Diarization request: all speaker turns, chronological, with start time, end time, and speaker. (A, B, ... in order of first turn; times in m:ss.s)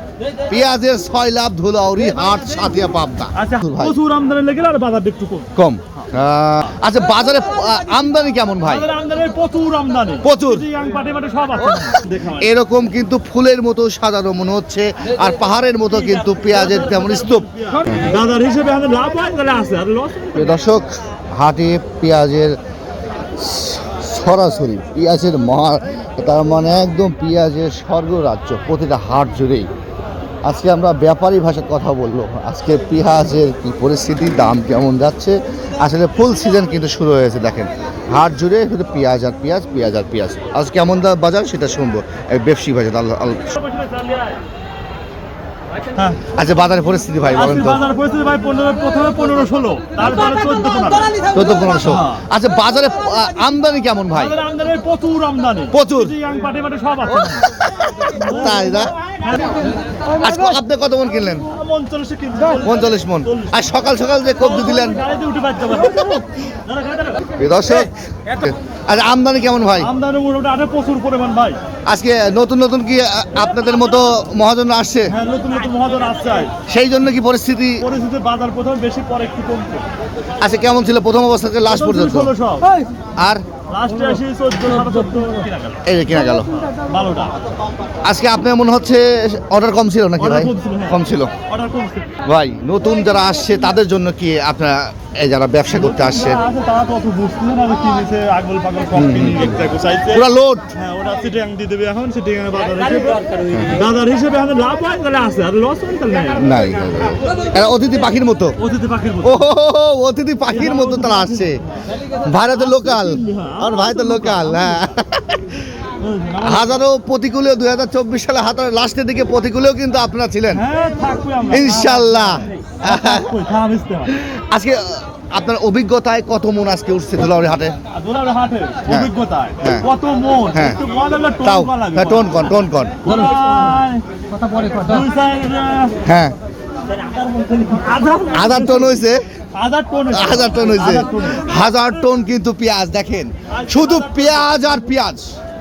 0:00.5-0:04.0 A
0:03.3-0:05.5 B
0:05.6-0:08.9 A
0:08.6-0:12.5 B
0:10.2-0:10.7 A
0:11.7-0:18.0 A
0:16.0-0:20.6 B
0:20.3-0:22.6 A
0:23.4-0:29.7 A
0:30.4-0:43.5 A
0:43.5-0:44.4 B
0:45.9-0:46.2 B
0:46.3-0:47.8 A
0:47.2-0:51.2 B
0:51.3-0:54.4 A
0:51.8-0:52.2 B
0:54.1-0:57.4 B
0:55.7-0:56.1 A
0:57.2-0:59.0 A
0:58.1-0:59.7 B
1:00.1-1:01.5 A
1:01.4-1:03.8 B
1:02.6-1:05.0 A
1:04.4-1:07.3 B
1:07.4-1:09.9 A
1:09.8-1:11.6 B
1:11.9-1:15.1 A
1:15.1-1:16.5 B
1:16.7-1:17.8 A
1:17.8-1:19.9 B
1:20.4-1:22.3 A
1:21.6-1:22.9 B
1:23.2-1:23.4 A
1:23.7-1:27.3 B
1:25.8-1:26.6 A
1:28.0-1:31.3 A
1:30.2-1:32.1 B
1:32.2-1:36.4 A
1:35.7-1:46.5 B
1:38.9-1:40.7 A
1:43.5-1:43.8 A
1:46.4-1:48.6 A
1:48.6-1:49.4 B
1:49.2-1:51.6 A
1:50.5-1:51.8 B
1:52.2-1:55.6 A
1:52.5-1:54.8 B
1:56.0-1:56.8 B
1:56.4-2:00.6 A
2:00.5-2:04.1 B
2:01.5-2:03.3 A
2:04.1-2:07.8 A
2:07.9-2:14.0 B
2:08.9-2:09.9 A
2:10.5-2:10.8 A
2:11.4-2:13.0 A
2:14.6-2:16.0 B
2:16.0-2:16.3 A
2:16.8-2:21.6 B
2:18.3-2:19.2 A
2:20.1-2:25.3 A
2:23.5-2:24.5 B